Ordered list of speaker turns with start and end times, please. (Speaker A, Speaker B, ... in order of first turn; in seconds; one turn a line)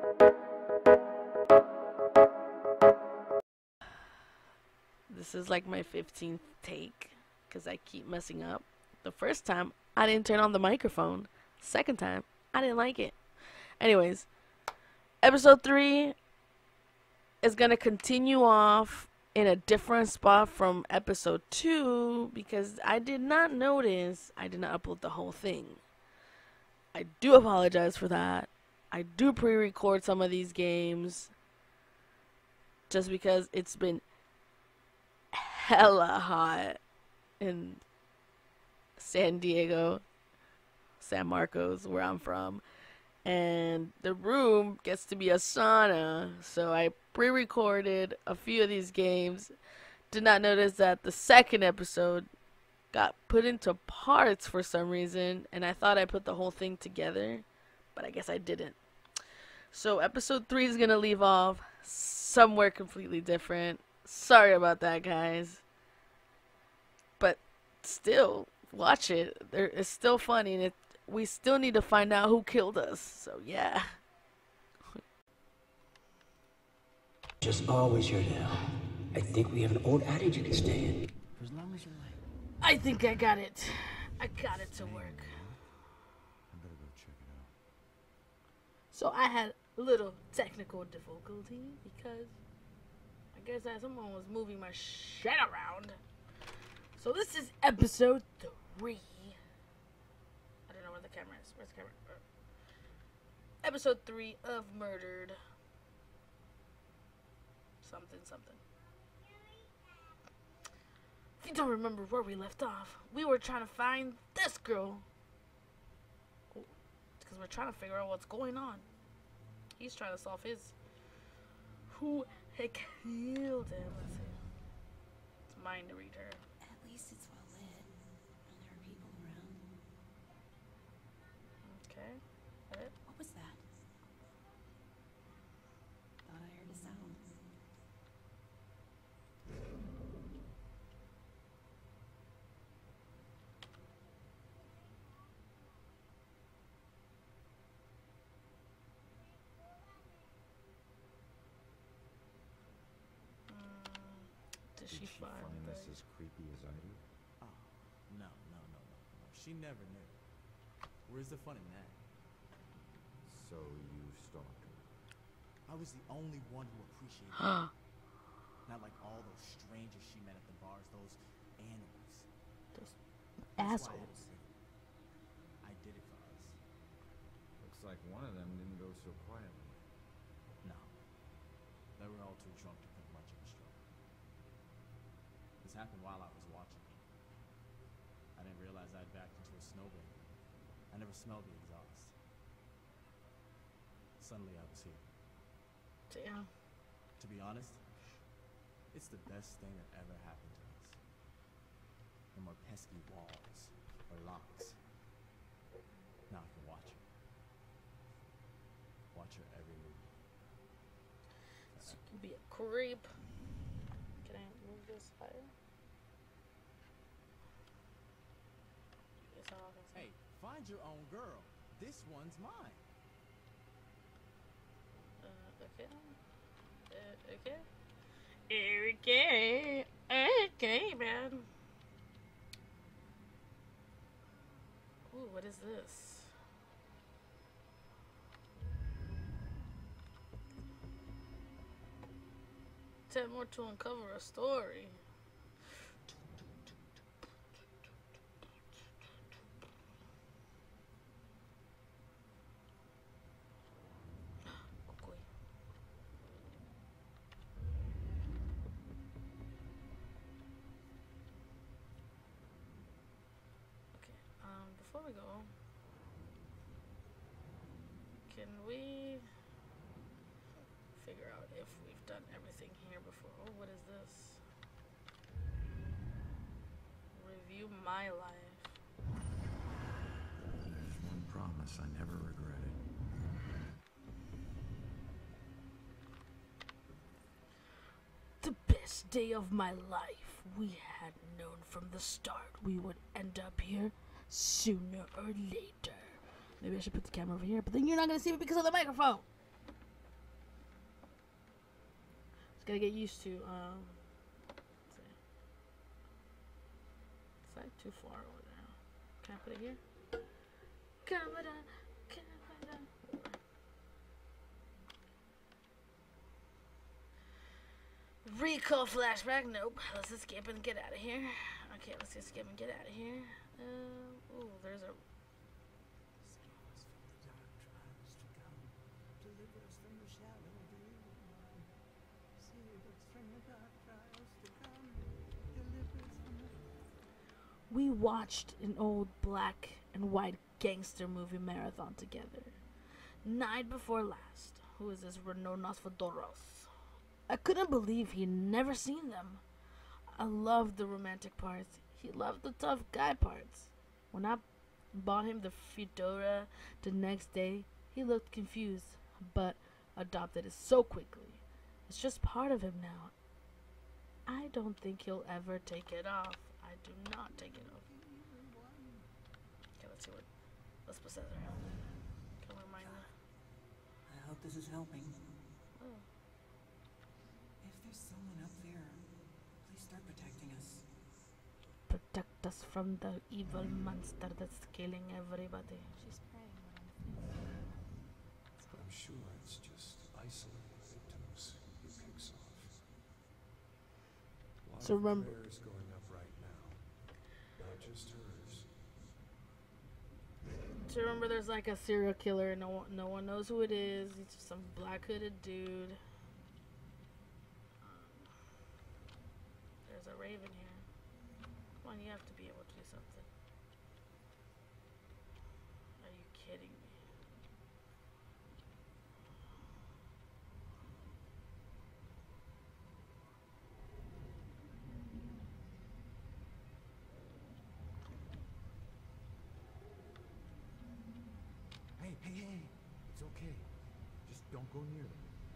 Speaker A: 5.1-13.2
Speaker A: 13.8-14.3
Speaker A: 15.2-16.1
Speaker A: 17.4-25.8
Speaker A: 26.9-31.3
Speaker A: 32.9-34.0
Speaker A: 35.3-36.8
Speaker A: 37.4-37.8
Speaker A: 39.0-40.0
Speaker A: 41.0-42.6
Speaker A: 43.2-49.5
Speaker A: 50.1-52.3
Speaker A: 52.9-58.8
Speaker A: 59.7-65.6
Speaker A: 67.2-73.9
Speaker B: 77.4-81.0
Speaker A: 82.6-85.3
Speaker C: 84.4-85.6
Speaker C: 86.5-87.5
Speaker A: 88.9-92.4
Speaker A: 93.3-96.0
Speaker A: 97.0-99.4
Speaker A: 100.7-102.2
Speaker A: 103.6-105.4
Speaker A: 107.8-108.6
Speaker A: 111.4-115.0
Speaker A: 116.5-118.9
Speaker A: 119.8-120.8
Speaker A: 121.9-124.4
Speaker A: 125.5-126.4
Speaker D: 126.6-127.9
Speaker D: 128.4-129.7
Speaker A: 131.6-132.9
Speaker D: 133.1-133.6
Speaker D: 136.2-137.4
Speaker A: 153.5-156.0
Speaker C: 154.9-157.0
Speaker E: 157.4-160.2
Speaker E: 161.1-162.0
Speaker C: 163.2-164.9
Speaker E: 165.7-167.7
Speaker E: 168.7-172.3
Speaker A: 173.5-174.1
Speaker E: 173.6-174.5
Speaker E: 175.6-176.6
Speaker C: 177.6-179.9
Speaker E: 180.6-180.9
Speaker E: 182.0-183.8
Speaker E: 185.6-187.0
Speaker E: 188.3-190.2
Speaker E: 190.9-192.1
Speaker E: 194.2-195.1
Speaker A: 196.1-196.5
Speaker E: 197.2-197.8
Speaker E: 198.9-201.0
Speaker E: 202.3-204.8
Speaker E: 206.3-207.1
Speaker E: 209.1-210.2
Speaker E: 211.8-212.0
Speaker A: 211.9-213.1
Speaker A: 214.2-215.5
Speaker A: 219.2-220.1
Speaker E: 219.9-222.8
Speaker A: 225.2-226.1
Speaker A: 226.9-227.6
Speaker A: 228.5-231.5
Speaker A: 235.1-236.3
Speaker A: 243.1-245.0
Speaker A: 254.9-255.3
Speaker A: 263.9-265.5
Speaker A: 268.3-269.2
Speaker A: 270.9-274.4
Speaker A: 277.1-278.8
Speaker C: 280.5-282.8
Speaker A: 288.4-299.2
Speaker A: 302.6-304.0
Speaker A: 304.9-305.2
Speaker A: 307.5-309.8
Speaker A: 311.1-313.1
Speaker A: 318.2-325.0
Speaker F: 326.2-328.7
Speaker F: 329.2-330.9
Speaker A: 337.7-342.6
Speaker A: 343.2-346.7
Speaker A: 347.3-349.4
Speaker A: 350.1-363.1
Speaker A: 364.3-367.8
Speaker A: 369.8-370.3
Speaker A: 370.9-371.6
Speaker A: 372.4-373.1
Speaker F: 374.1-375.1
Speaker D: 374.3-374.6
Speaker A: 375.8-376.1
Speaker F: 377.6-379.0
Speaker F: 379.6-380.8
Speaker A: 381.9-385.9
Speaker F: 386.0-387.3
Speaker F: 388.6-388.9
Speaker G: 388.7-392.8
Speaker G: 394.6-397.0
Speaker A: 394.8-395.3
Speaker G: 397.6-398.7
Speaker A: 400.8-406.0
Speaker A: 407.8-408.3
Speaker A: 409.9-410.9
Speaker A: 411.8-413.3
Speaker A: 416.0-417.0
Speaker C: 432.0-433.7
Speaker C: 434.2-435.3